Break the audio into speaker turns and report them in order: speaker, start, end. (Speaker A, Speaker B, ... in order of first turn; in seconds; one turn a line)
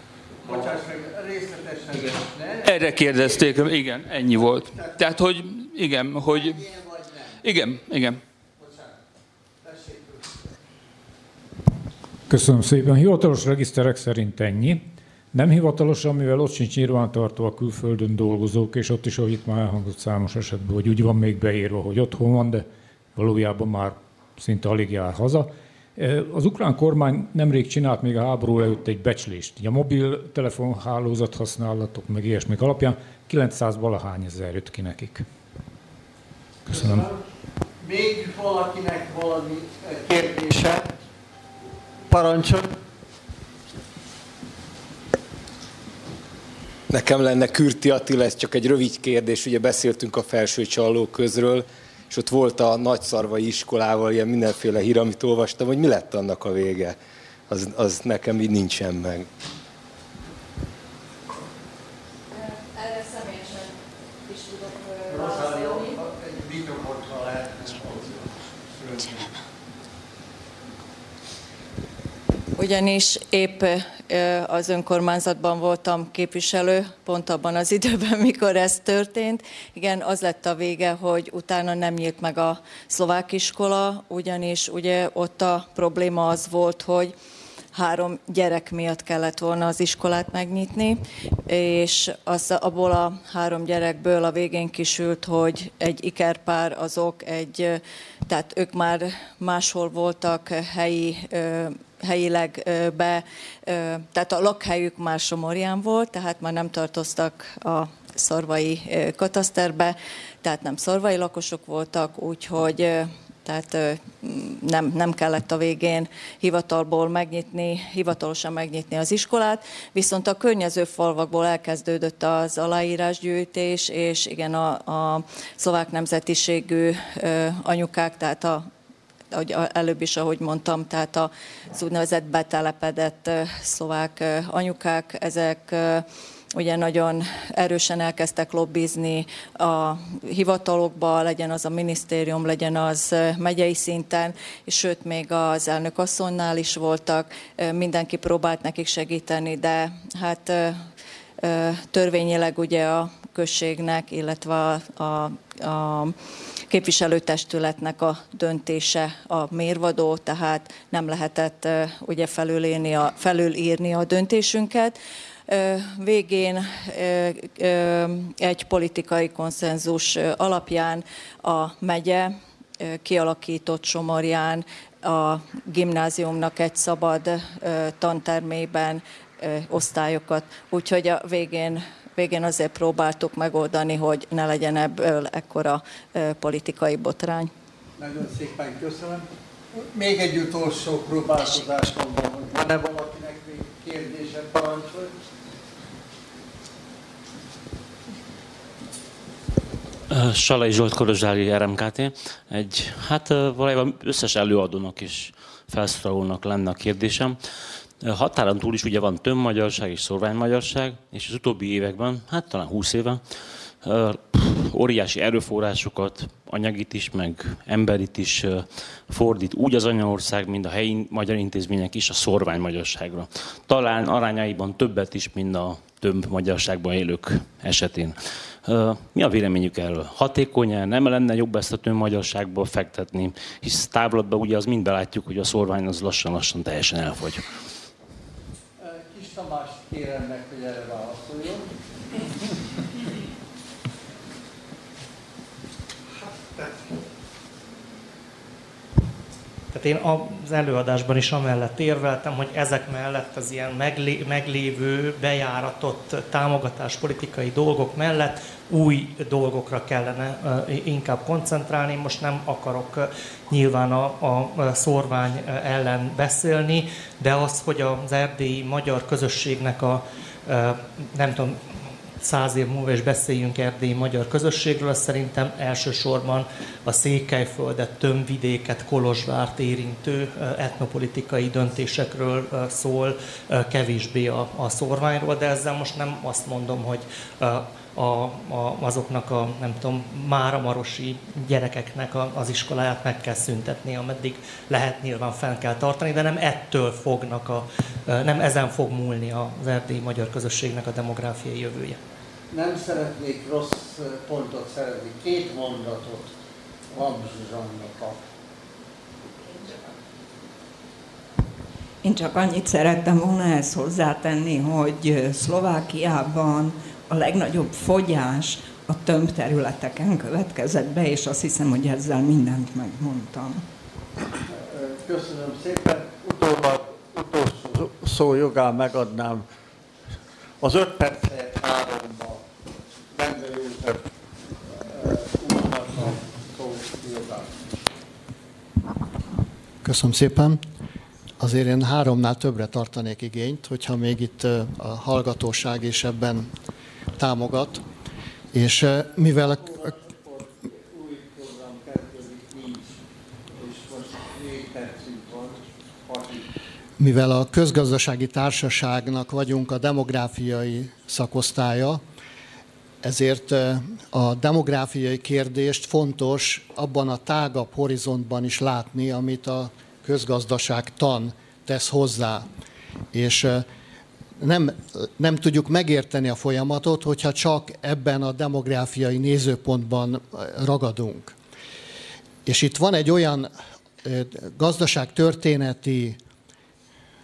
Speaker A: 0.4-3.6
Speaker B: 0.5-0.8
Speaker B: 2.6-6.6
Speaker A: 4.3-5.1
Speaker A: 6.2-7.4
Speaker B: 7.4-8.2
Speaker A: 8.6-9.0
Speaker A: 9.6-10.5
Speaker C: 12.3-35.3
Speaker A: 36.7-37.2
Speaker C: 36.7-37.0
Speaker A: 37.8-40.9
Speaker A: 42.1-42.7
Speaker D: 46.9-57.0
Speaker D: 57.5-59.3
Speaker E: 62.3-66.0
Speaker A: 65.1-69.4
Speaker E: 72.6-87.1
Speaker E: 87.8-128.7
Speaker E: 129.3-150.8
Speaker E: 151.4-156.2
Speaker E: 156.7-165.0
Speaker E: 165.5-187.5
Speaker A: 188.0-195.1
Speaker F: 200.1-213.2
Speaker F: 213.8-237.5
Speaker A: 238.8-241.7
Speaker G: 249.7-271.6
Speaker G: 272.2-302.0
Speaker A: 302.5-306.3
Speaker A: 306.9-308.2
Speaker H: 312.0-323.6
Speaker A: 324.4-329.4
Speaker A: 330.6-332.4
Speaker A: 333.1-334.1
Speaker A: 334.7-337.8
Speaker I: 339.8-340.6
Speaker I: 341.4-346.5
Speaker I: 347.2-347.8
Speaker I: 348.5-349.7
Speaker A: 349.1-353.0
Speaker A: 353.6-356.5
Speaker I: 357.0-362.0
Speaker I: 363.0-372.5
Speaker I: 373.1-373.7
Speaker I: 374.4-381.4
Speaker I: 382.5-383.5
Speaker I: 384.0-386.2